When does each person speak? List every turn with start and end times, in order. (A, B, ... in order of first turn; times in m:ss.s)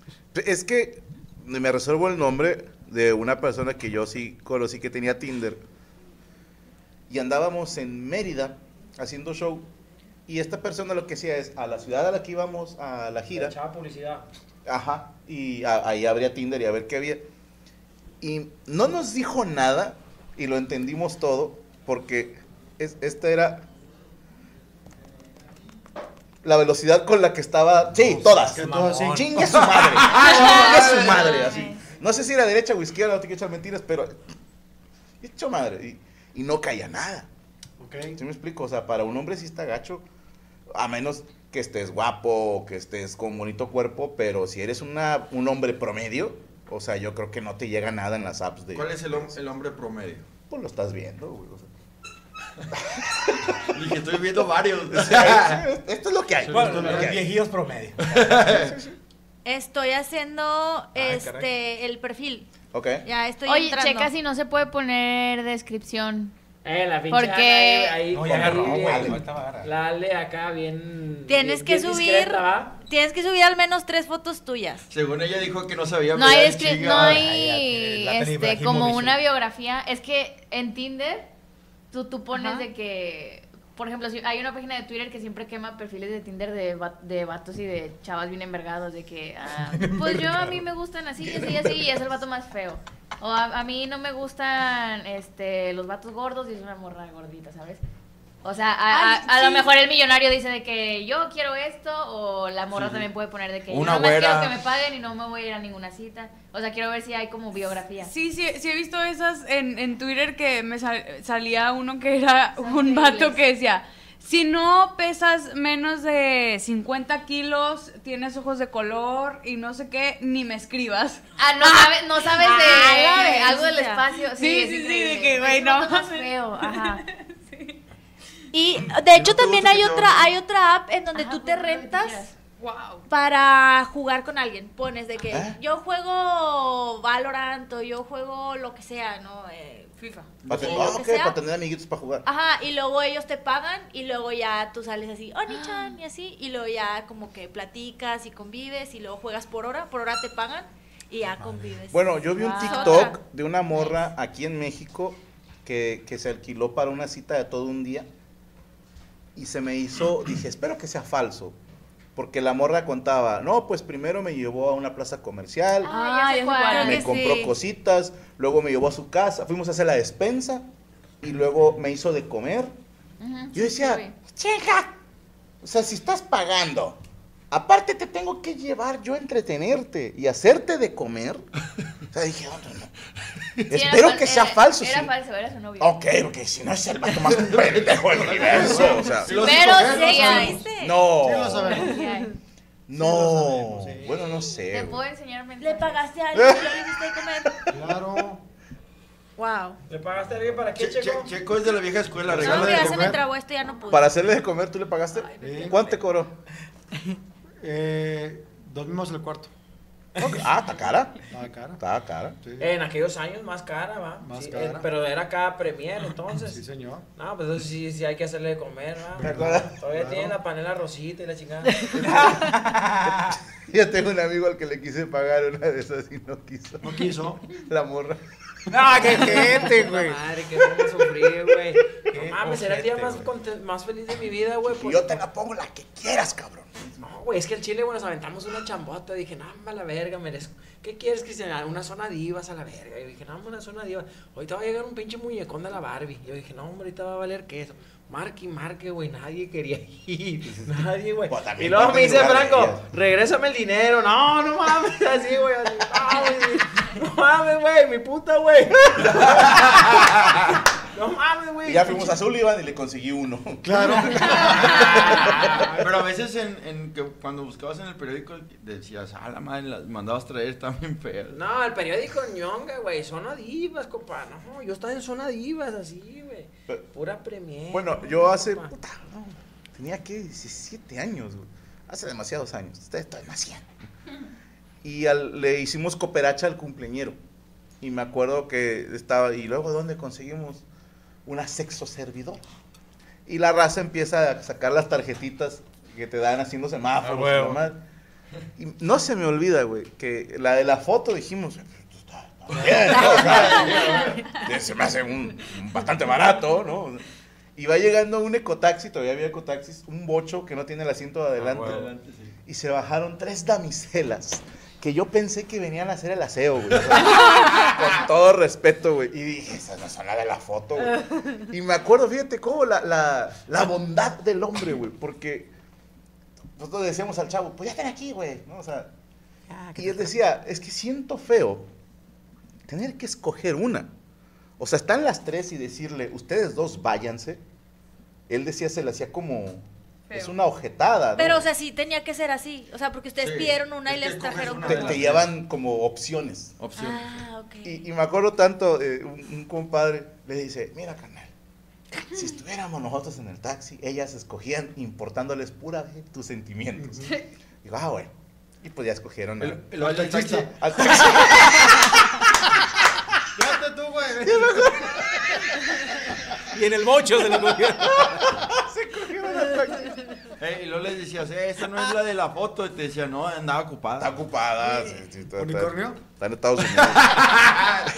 0:00.3-0:05.6 A
0:07.1-0:09.7 A
0:10.3-0:13.5 A
0:13.3-0:14.2 B
0:14.6-0:17.2 A
0:18.2-0:23.7 A
0:26.4-0:34.2 A
0:28.1-0:30.2 C
0:28.2-0:29.6 D
0:30.2-0:31.7 E
0:30.2-0:31.0 D
0:30.4-0:31.5 F
0:35.2-0:37.3 A
0:37.8-0:38.2 D
0:38.1-0:40.0 A
0:40.7-0:49.4 A
0:48.7-0:50.2 G
0:50.5-0:51.7 A
0:52.7-0:53.6 A
0:53.6-0:55.6 G
0:54.9-0:57.3 A
0:56.5-0:58.4 C
0:56.5-0:57.2 D
0:58.0-0:58.8 G
0:58.4-0:59.0 A
0:59.4-1:02.5 E
1:00.9-1:01.5 C
1:02.7-1:03.0 A
1:03.0-1:04.1 E
1:03.4-1:06.3 F
1:06.6-1:12.8 B
1:07.1-1:08.0 F
1:08.1-1:09.7 C
1:08.2-1:09.2 A
1:11.3-1:14.8 E
1:14.9-1:17.2 G
1:16.1-1:21.3 F
1:16.9-1:19.2 C
1:21.9-1:37.8 F
1:22.3-1:22.6 E
1:29.6-1:30.6 C
1:38.4-1:48.1 F
1:38.9-1:39.7 H
1:42.7-1:43.1 G
1:43.7-1:44.6 G
1:48.0-2:01.2 H
1:52.6-1:53.4 F
2:01.4-2:07.0 F
2:02.3-2:04.0 E
2:04.3-2:07.8 H
2:08.5-2:12.3 E
2:09.1-2:10.3 G
2:11.1-2:12.4 F
2:12.6-2:13.0 H
2:13.1-2:19.9 E
2:15.3-2:15.6 A
2:20.0-2:20.3 H
2:20.4-2:21.4 E
2:20.4-2:22.2 A
2:22.2-2:33.2 E
2:31.9-2:38.1 A
2:32.4-2:33.1 F
2:39.4-2:41.6 A
2:42.1-2:45.9 A
2:45.8-2:47.0 F
2:45.8-2:47.0 H
2:46.7-2:47.5 E
2:46.8-2:50.7 A
2:51.2-2:52.7 A
2:53.2-2:54.1 F
2:53.5-2:54.9 A
2:55.6-2:57.0 A
2:57.5-3:01.4 A
3:02.1-3:02.9 A
3:03.7-3:05.1 A
3:03.7-3:06.0 F
3:05.8-3:09.3 A
3:07.3-3:10.6 G
3:09.3-3:10.6 F
3:09.3-3:11.0 E
3:10.7-3:11.9 A
3:11.2-3:12.0 D
3:11.7-3:12.3 F
3:11.9-3:12.2 E
3:12.9-3:15.0 A
3:12.9-3:14.2 D
3:14.6-3:16.0 F
3:15.6-3:17.6 E
3:16.3-3:17.0 A
3:17.7-3:18.4 D
3:19.4-3:19.8 E
3:19.9-3:21.3 B
3:20.7-3:23.1 G
3:22.2-3:23.2 D
3:22.4-3:24.2 E
3:23.9-3:26.3 A
3:25.4-3:25.8 D
3:27.6-3:29.5 D
3:30.2-3:31.2 A
3:31.3-3:31.8 D
3:31.8-3:32.4 A
3:32.4-3:32.7 D
3:32.6-3:36.6 B
3:34.2-3:34.9 D
3:36.4-3:37.0 D
3:37.2-3:42.0 B
3:39.2-3:40.4 D
3:39.2-3:39.8 A
3:41.9-3:48.2 A
3:42.3-3:43.3 C
3:46.8-3:47.4 D
3:48.7-3:50.2 C
3:48.7-3:55.2 B
3:48.7-3:49.7 A
3:52.1-3:53.3 C
3:54.6-3:57.0 A
3:57.0-4:19.8 B
4:11.2-4:12.9 A
4:20.9-4:22.2 B
4:21.6-4:25.6 A
4:23.6-4:24.8 D
4:24.5-4:25.9 B
4:25.8-4:31.4 G
4:31.3-4:38.7 B
4:37.7-4:43.7 A
4:44.8-4:47.2 A
4:47.8-4:50.6 A
4:51.2-4:52.4 A
4:53.2-4:57.8 A
4:57.0-4:57.6 C
4:58.6-5:07.0 A
5:02.5-5:04.2 G
5:07.6-5:11.9 A
5:11.4-5:11.8 C
5:11.5-5:12.3 G
5:12.5-5:25.5 A
5:26.6-5:28.9 A
5:29.5-5:30.1 C
5:29.7-5:31.7 A
5:32.7-5:33.9 A
5:34.6-5:37.4 A
5:38.3-5:41.5 A
5:40.1-5:40.4 H
5:41.2-5:45.0 E
5:43.2-5:45.3 G
5:44.6-5:46.5 A
5:46.6-5:47.2 G
5:46.8-5:47.8 E
5:47.6-5:51.3 A
5:52.1-5:57.1 A
5:56.8-5:57.1 D
5:57.6-5:59.6 A
5:59.4-6:01.0 G
5:59.8-6:00.5 D
6:00.6-6:02.2 A
6:03.3-6:04.9 D
6:04.2-6:05.5 A
6:06.5-6:08.4 C
6:07.3-6:10.0 A
6:10.4-6:14.2 G
6:14.0-6:17.8 A
6:15.4-6:16.0 D